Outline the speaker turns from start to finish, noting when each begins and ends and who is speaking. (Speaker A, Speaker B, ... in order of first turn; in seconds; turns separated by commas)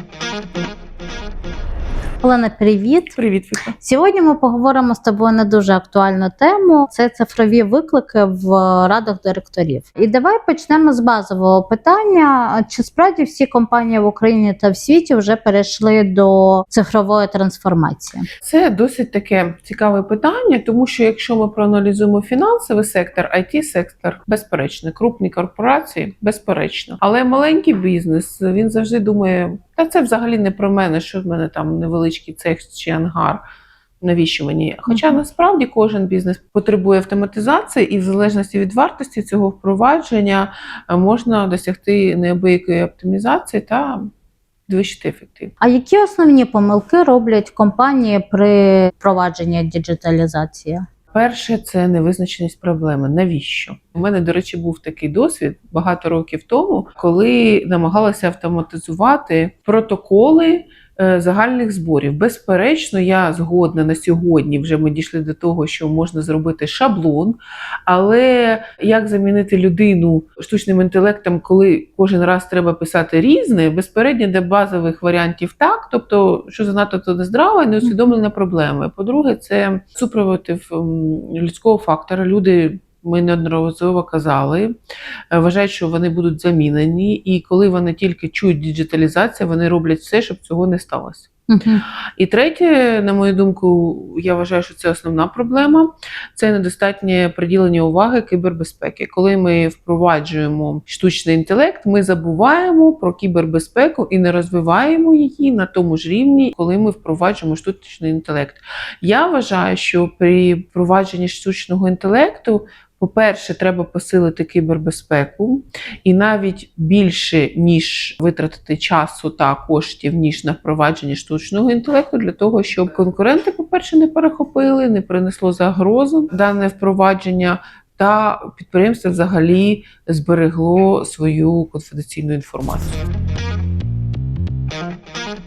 Speaker A: 2.2-3.1, Speaker B: 3.1-3.8, Speaker A: 3.8-18.2, Speaker B: 18.4-33.4, Speaker B: 34.0-44.1, Speaker A: 34.9-35.2, Speaker B: 44.7-45.5, Speaker A: 45.6-50.8, Speaker B: 51.1-84.7, Speaker B: 85.3-91.3, Speaker A: 91.5-91.8, Speaker B: 92.2-133.0